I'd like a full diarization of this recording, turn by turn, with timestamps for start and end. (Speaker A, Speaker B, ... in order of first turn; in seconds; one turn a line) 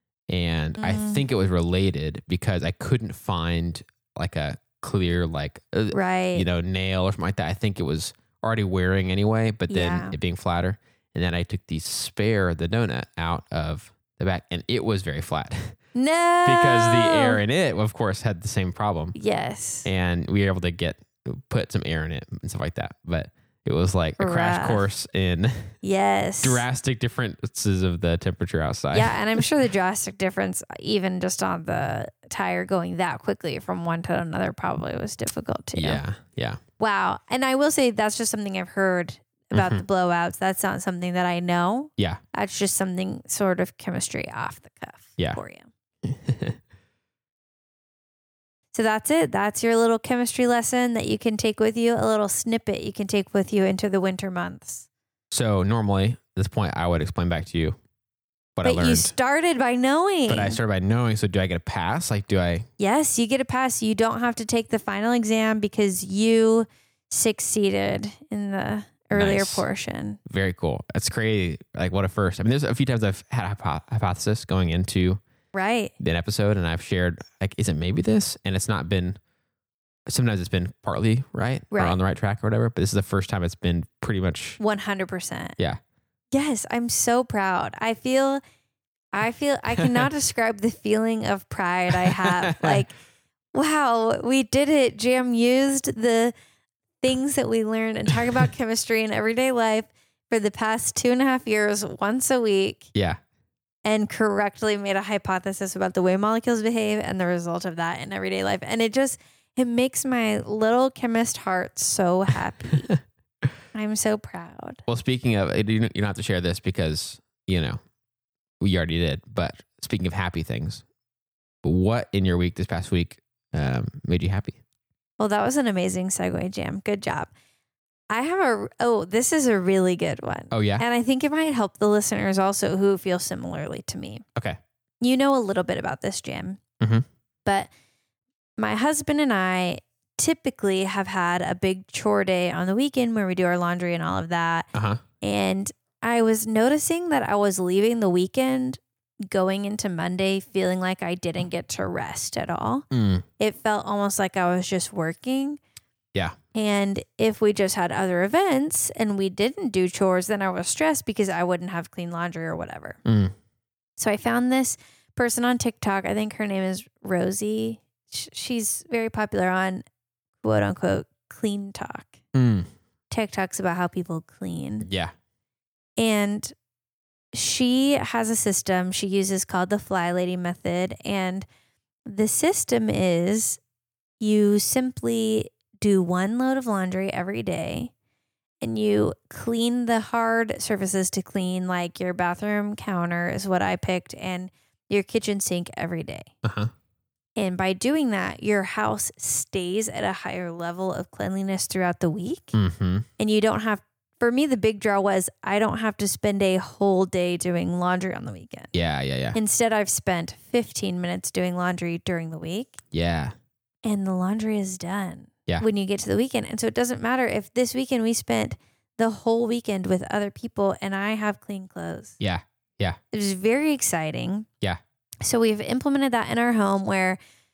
Speaker A: 0.3-15.7
Speaker B: 0.8-1.3
Speaker B: 5.9-6.5
Speaker B: 9.7-10.2
Speaker B: 15.9-17.4
Speaker A: 16.4-19.1
Speaker B: 19.1-19.9
Speaker A: 19.8-25.6
Speaker B: 24.2-24.9
Speaker B: 25.8-26.6
Speaker A: 26.4-29.4
Speaker B: 28.9-36.0
Speaker A: 35.7-36.6
Speaker B: 36.8-45.7
Speaker A: 39.5-39.8
Speaker A: 46.0-46.6
Speaker B: 48.7-54.9
Speaker A: 55.3-57.8
Speaker A: 58.5-59.1
Speaker B: 58.6-60.6
Speaker A: 60.3-62.7
Speaker B: 62.8-70.2
Speaker A: 69.1-69.7
Speaker A: 70.3-75.2
Speaker B: 75.5-75.9
Speaker A: 76.0-79.2
Speaker A: 80.1-84.6
Speaker B: 81.7-82.0
Speaker B: 84.6-85.5
Speaker B: 86.3-88.4
Speaker B: 89.1-92.9
Speaker A: 92.1-92.8
Speaker B: 93.5-96.3
Speaker B: 97.0-102.9
Speaker B: 103.8-112.9
Speaker B: 113.7-114.8
Speaker A: 114.9-117.8
Speaker A: 118.6-120.8
Speaker A: 121.6-124.6
Speaker B: 125.2-127.3
Speaker B: 128.1-134.2
Speaker A: 130.5-130.8
Speaker B: 135.0-136.6
Speaker B: 138.6-144.7
Speaker A: 144.7-145.0
Speaker B: 145.2-152.8
Speaker A: 152.9-153.2
Speaker B: 153.4-155.6
Speaker B: 156.5-163.0
Speaker A: 163.0-163.3
Speaker B: 164.0-169.8
Speaker B: 170.4-172.1
Speaker A: 172.3-172.7
Speaker B: 173.1-174.9
Speaker A: 174.8-175.1
Speaker B: 176.0-176.5
Speaker B: 177.3-181.4
Speaker B: 182.1-183.6
Speaker B: 184.2-187.9
Speaker B: 188.6-196.3
Speaker A: 196.4-196.7
Speaker B: 197.4-202.6
Speaker A: 202.5-203.1
Speaker B: 203.2-208.7
Speaker A: 208.7-209.4
Speaker B: 209.3-212.8
Speaker A: 212.9-213.3
Speaker B: 213.8-222.2
Speaker A: 222.2-223.0
Speaker B: 223.1-224.5
Speaker B: 225.2-227.2